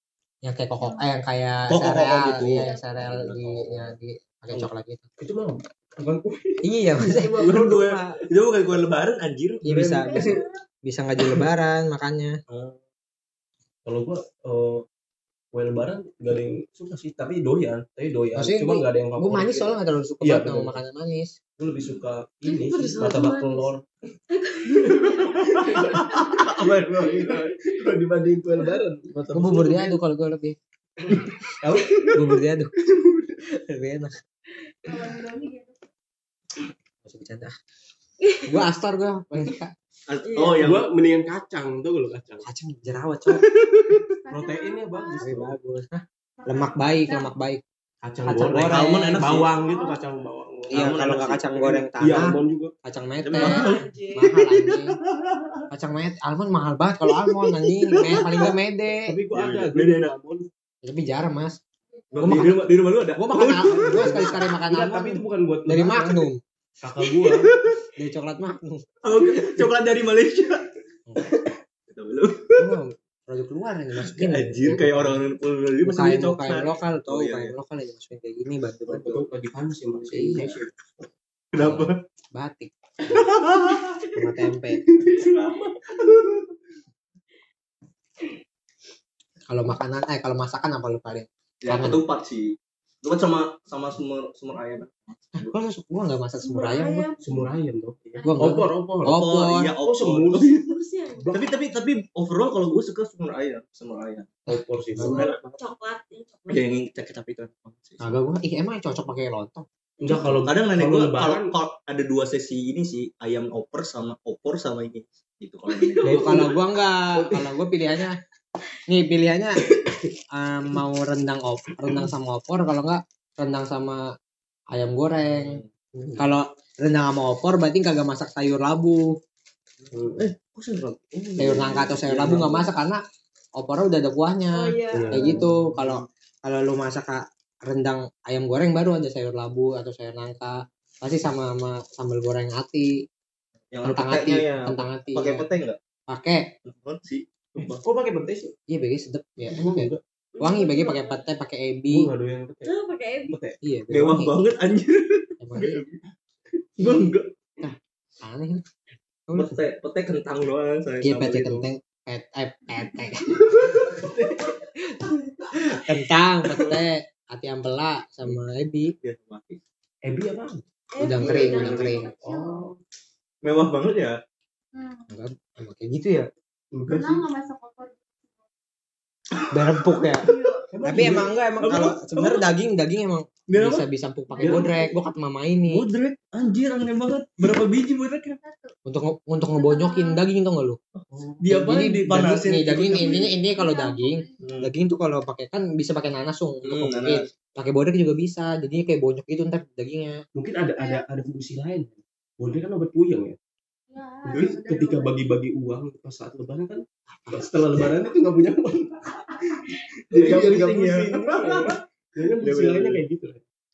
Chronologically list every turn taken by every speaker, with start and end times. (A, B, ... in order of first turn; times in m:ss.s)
0:00.4-0:05.0 A
0:00.8-0:01.1 B
0:01.7-0:03.9 C
0:04.5-0:07.8 D
0:06.6-0:08.2 A
0:07.4-0:09.9 C
0:09.6-0:10.3 A
0:09.7-0:10.4 D
0:10.1-0:10.6 B
0:10.8-0:12.4 A
0:12.5-0:12.8 C
0:13.8-0:14.8 D
0:15.5-0:20.8 D
0:18.4-0:21.3 A
0:21.6-0:23.8 D
0:21.8-0:22.0 C
0:22.4-0:23.7 E
0:24.3-0:25.4 E
0:24.8-0:30.0 D
0:25.2-0:27.5 C
0:29.2-0:29.5 C
0:29.3-0:30.6 A
0:31.0-0:33.4 D
0:32.1-0:32.7 A
0:33.5-0:34.2 A
0:34.8-0:35.8 B
0:37.0-0:37.6 A
0:38.2-0:38.5 E
0:38.4-0:39.7 A
0:40.1-0:40.9 C
0:40.2-0:40.7 E
0:40.4-0:42.4 D
0:42.4-0:43.5 A
0:43.9-0:45.5 D
0:44.2-0:45.4 B
0:45.1-0:47.6 A
0:46.4-0:47.3 B
0:48.0-0:50.8 D
0:48.2-0:49.4 A
0:48.6-0:49.5 C
0:49.5-0:50.1 B
0:50.7-0:51.9 C
0:50.7-0:55.0 A
0:52.0-0:52.7 D
0:53.2-0:55.6 C
0:53.4-0:54.3 E
0:55.7-0:59.1 A
0:58.0-1:00.5 D
0:59.3-1:00.2 C
1:00.8-1:01.6 A
1:02.1-1:04.4 C
1:02.1-1:02.6 A
1:03.2-1:06.4 A
1:03.4-1:06.2 D
1:06.8-1:07.5 D
1:07.0-1:07.8 C
1:08.0-1:08.8 A
1:09.0-1:10.6 C
1:11.9-1:12.7 C
1:12.6-1:15.2 A
1:14.0-1:17.5 C
1:15.8-1:19.2 A
1:18.9-1:20.7 D
1:20.1-1:20.6 A
1:21.5-1:22.0 C
1:21.6-1:23.3 A
1:23.1-1:24.0 C
1:24.1-1:24.9 A
1:24.8-1:26.5 D
1:29.5-1:32.0 A
1:31.6-1:35.5 C
1:35.4-1:37.1 A
1:36.4-1:37.2 E
1:36.6-1:36.9 B
1:37.2-1:39.2 D
1:38.2-1:39.7 A
1:39.0-1:40.6 C
1:39.7-1:40.6 D
1:40.4-1:41.4 E
1:41.3-1:44.3 C
1:44.5-1:45.2 D
1:44.5-1:45.2 A
1:45.0-1:45.6 C
1:45.0-1:46.6 E
1:46.5-1:48.1 C
1:48.0-1:50.3 A
1:50.0-1:51.5 D
1:50.4-1:56.3 C
1:55.8-1:56.6 D
1:56.0-1:58.2 A
1:57.1-1:57.5 D
1:58.9-1:59.6 A
2:00.3-2:04.0 A
2:04.7-2:05.6 A
2:05.4-2:05.6 C
2:05.9-2:06.2 D
2:06.2-2:09.0 A
2:09.8-2:12.6 C
2:09.9-2:12.7 D
2:11.4-2:13.0 A
2:13.6-2:22.9 A
2:14.5-2:15.4 E
2:14.9-2:15.6 D
2:23.7-2:25.8 C
2:23.8-2:25.4 A
2:26.1-2:26.5 A
2:26.6-2:27.8 C
2:27.6-2:28.5 D
2:28.7-2:32.1 A
2:29.5-2:30.0 D
2:30.4-2:31.2 B
2:31.9-2:32.7 D
2:32.6-2:33.4 E
2:33.3-2:33.6 D
2:33.6-2:34.3 A
2:33.9-2:36.0 C
2:35.4-2:35.8 A
2:36.8-2:37.3 C
2:37.6-2:38.6 A
2:39.3-2:39.6 A
2:39.3-2:41.7 C
2:41.0-2:43.3 A
2:43.5-2:44.0 C
2:43.8-2:44.6 D
2:45.7-2:48.9 A
2:49.0-2:49.6 C
2:50.0-2:52.8 D
2:51.0-2:51.7 E
2:51.0-2:52.7 B
2:51.0-2:52.1 A
2:53.4-2:54.2 C
2:54.7-2:55.2 B
2:55.1-2:56.3 A
2:56.7-2:57.2 D
2:56.9-2:58.5 B
2:59.5-3:00.2 A
2:59.9-3:00.3 C
3:00.2-3:00.7 B
3:00.7-3:01.9 D
3:00.8-3:05.8 A
3:01.0-3:02.4 C
3:03.5-3:03.8 C
3:04.4-3:04.7 C
3:04.4-3:04.7 D
3:04.4-3:04.7 B
3:05.7-3:08.4 C
3:08.4-3:08.7 B
3:08.8-3:10.8 A
3:09.4-3:10.2 B
3:11.0-3:13.3 C
3:11.1-3:11.4 D
3:11.5-3:20.2 A
3:13.0-3:14.3 B
3:14.4-3:14.7 C
3:16.6-3:17.3 C
3:20.3-3:23.4 D
3:20.7-3:21.1 B
3:23.9-3:25.2 B
3:24.2-3:29.5 D
3:24.3-3:24.6 C
3:27.2-3:27.6 A
3:30.1-3:33.4 D
3:30.1-3:31.8 C
3:32.3-3:33.0 C